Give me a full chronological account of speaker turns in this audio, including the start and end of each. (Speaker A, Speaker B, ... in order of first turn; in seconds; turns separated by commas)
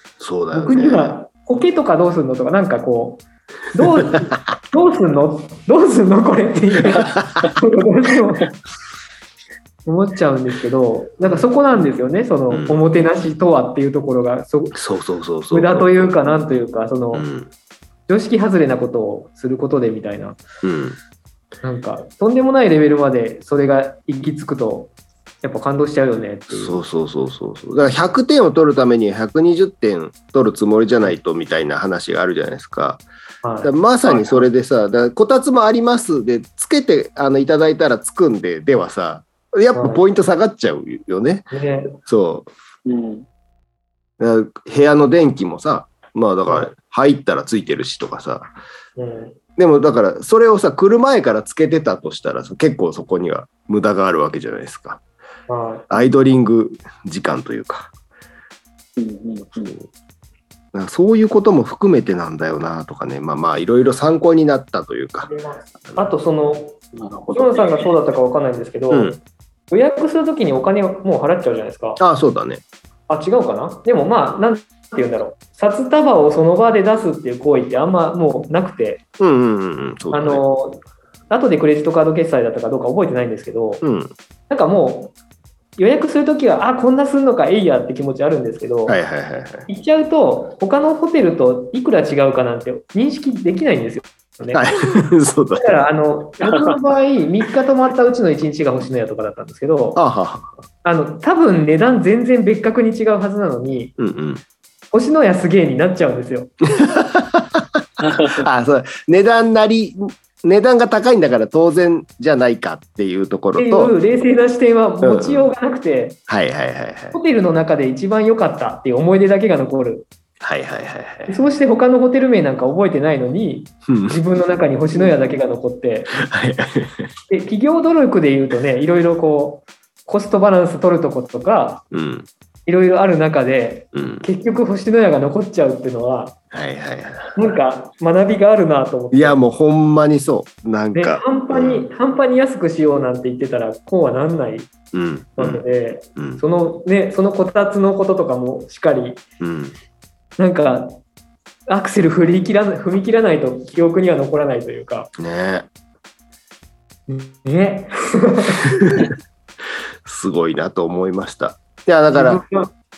Speaker A: 0.2-1.1, Speaker B: 0.5-8.6, Speaker A: 4.2-4.5, Speaker A: 6.9-7.5, Speaker B: 9.9-14.8, Speaker A: 12.5-12.8, Speaker A: 14.8-16.1, Speaker B: 15.5-17.3, Speaker A: 17.1-17.5, Speaker B: 18.1-20.4, Speaker A: 20.6-21.0, Speaker B: 21.6-24.9, Speaker B: 25.4-26.8, Speaker A: 26.5-33.0, Speaker B: 33.4-33.7, Speaker A: 33.6-42.5, Speaker B: 39.7-40.0, Speaker B: 41.5-41.9, Speaker C: 42.9-43.3, Speaker A: 44.2-48.5, Speaker B: 49.0-49.4, Speaker A: 49.6-55.0, Speaker B: 55.5-55.9, Speaker A: 55.9-57.9, Speaker C: 59.0-59.7, Speaker A: 59.6-59.9, Speaker A: 60.7-65.3, Speaker B: 65.3-66.8, Speaker C: 66.9-67.9, Speaker B: 67.3-69.1, Speaker A: 68.9-69.2, Speaker B: 69.7-72.0, Speaker A: 72.0-72.6, Speaker B: 73.1-79.0, Speaker A: 79.2-80.4, Speaker B: 80.1-83.8, Speaker A: 83.8-84.1, Speaker B: 84.5-85.1, Speaker B: 85.8-89.0, Speaker A: 88.9-89.7, Speaker B: 89.7-94.6, Speaker A: 94.5-95.7, Speaker B: 95.6-100.0, Speaker A: 99.9-100.5, Speaker B: 100.8-103.9, Speaker A: 104.0-104.4, Speaker B: 104.9-106.5, Speaker A: 106.7-113.9, Speaker C: 108.0-108.4, Speaker B: 113.6-116.2, Speaker A: 115.0-115.5, Speaker A: 116.3-117.2, Speaker B: 117.1-120.1, Speaker A: 120.4-121.4, Speaker B: 121.3-126.2, Speaker A: 123.9-124.2, Speaker A: 126.1-127.1, Speaker B: 127.3-131.8, Speaker A: 131.9-132.3, Speaker B: 132.7-136.4, Speaker A: 133.9-134.3, Speaker A: 136.5-137.4, Speaker B: 137.3-139.4, Speaker A: 139.1-141.8, Speaker B: 140.9-144.7, Speaker A: 144.9-145.6, Speaker B: 145.4-149.2, Speaker A: 146.2-146.4, Speaker A: 149.4-149.7, Speaker B: 150.4-151.0, Speaker B: 151.7-155.1, Speaker A: 155.2-155.7, Speaker B: 157.1-158.7, Speaker A: 160.1-162.4, Speaker B: 162.1-162.7